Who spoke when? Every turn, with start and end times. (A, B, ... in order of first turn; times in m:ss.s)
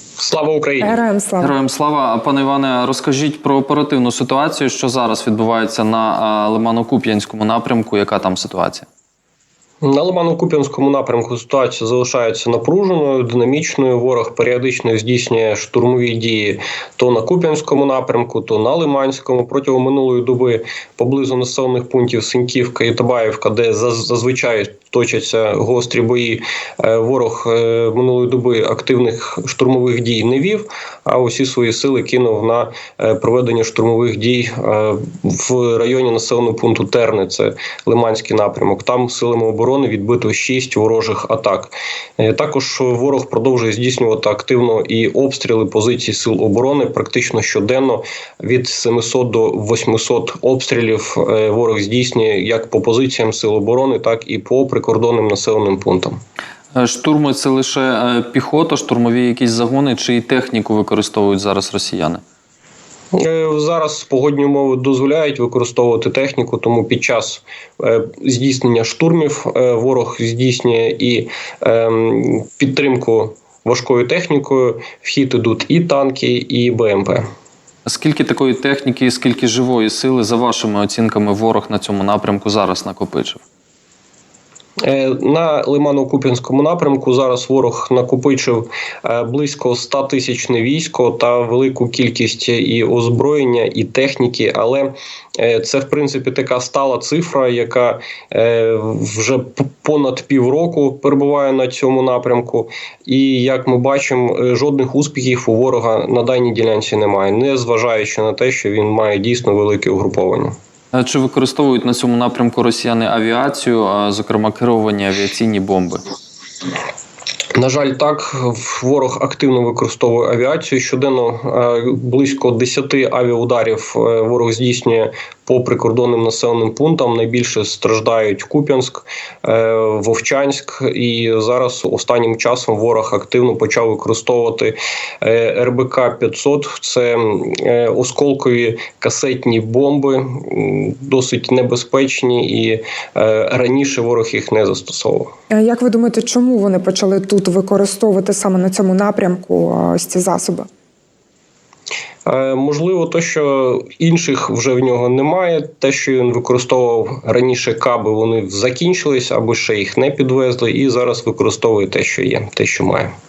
0:00.2-0:01.0 A
0:00.8-0:01.6 B
0:01.4-0:08.9 C
0:09.8-0:56.2 A
0:56.7-1:02.2 C
1:03.1-1:17.3 A
1:17.9-1:23.4 C
1:24.8-1:50.6 A
1:50.9-1:56.0 C
1:57.6-2:25.3 A
2:25.5-2:30.7 B
2:32.3-2:43.1 A